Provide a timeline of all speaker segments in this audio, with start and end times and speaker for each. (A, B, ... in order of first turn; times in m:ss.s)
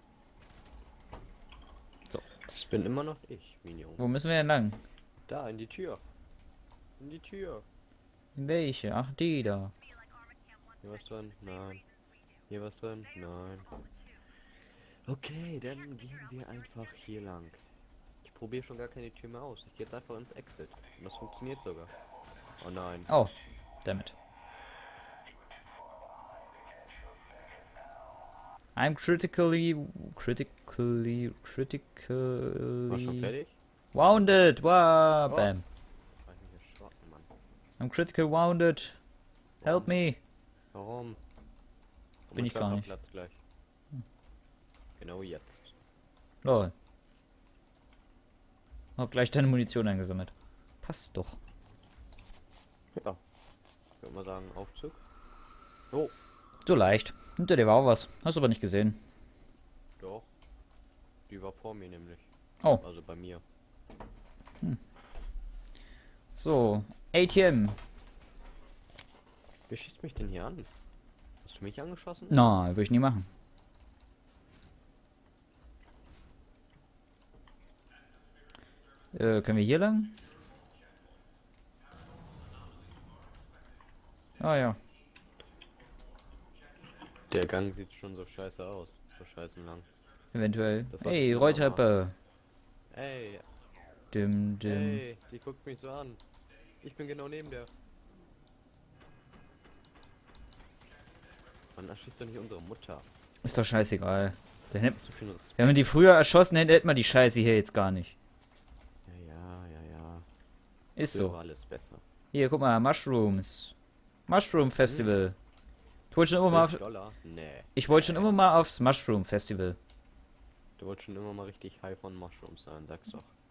0:02.5-0:04.0 A
0:04.0-0:04.8 B
0:05.3-0:06.0 A
0:07.0-0:07.6 A
0:08.4-0:09.7 B
0:10.8-0:11.8 A
0:12.5-0:13.7 A
0:15.0-0:17.6 A
0:18.2-0:21.9 A
0:22.6-0:23.1 A
0:23.1-0:23.3 B
0:23.8-0:24.1 B
0:28.8-0:33.3 B
0:32.9-0:33.5 A
0:33.9-0:35.6 B
0:36.2-0:37.3 A
0:37.8-0:39.0 B
0:39.6-0:39.9 A
0:39.6-0:40.2 B
0:40.7-0:41.2 A
0:42.3-0:43.4 A
0:42.3-0:42.9 B
0:45.0-0:45.7 A
0:46.4-0:46.7 B
0:49.0-0:51.4 B
0:52.9-0:53.2 A
0:54.0-0:55.0 A
0:56.6-0:59.0 B
1:00.0-1:00.3 A
1:01.3-1:02.3 A
1:02.8-1:03.4 A
1:06.4-1:07.8 B
1:09.7-1:10.7 A
1:11.4-1:12.5 A
1:12.3-1:13.3 B
1:19.1-1:20.2 B
1:24.4-1:24.8 B
1:27.3-1:29.9 A
1:30.3-1:32.1 B
1:30.9-1:31.8 A
1:32.9-1:33.5 A
1:34.1-1:35.0 B
1:34.6-1:36.2 A
1:36.8-1:37.7 A
1:41.8-1:43.1 A
1:43.4-1:45.0 B
1:44.7-1:45.8 A
1:45.6-1:48.1 B
1:49.1-1:50.2 A
1:51.0-1:51.3 B
1:51.1-1:52.0 A
1:52.3-1:53.7 B
1:54.3-1:55.4 B
1:54.8-1:55.2 A
1:56.1-1:56.8 B
1:56.3-1:58.3 A
1:57.8-1:59.8 B
2:00.8-2:03.3 A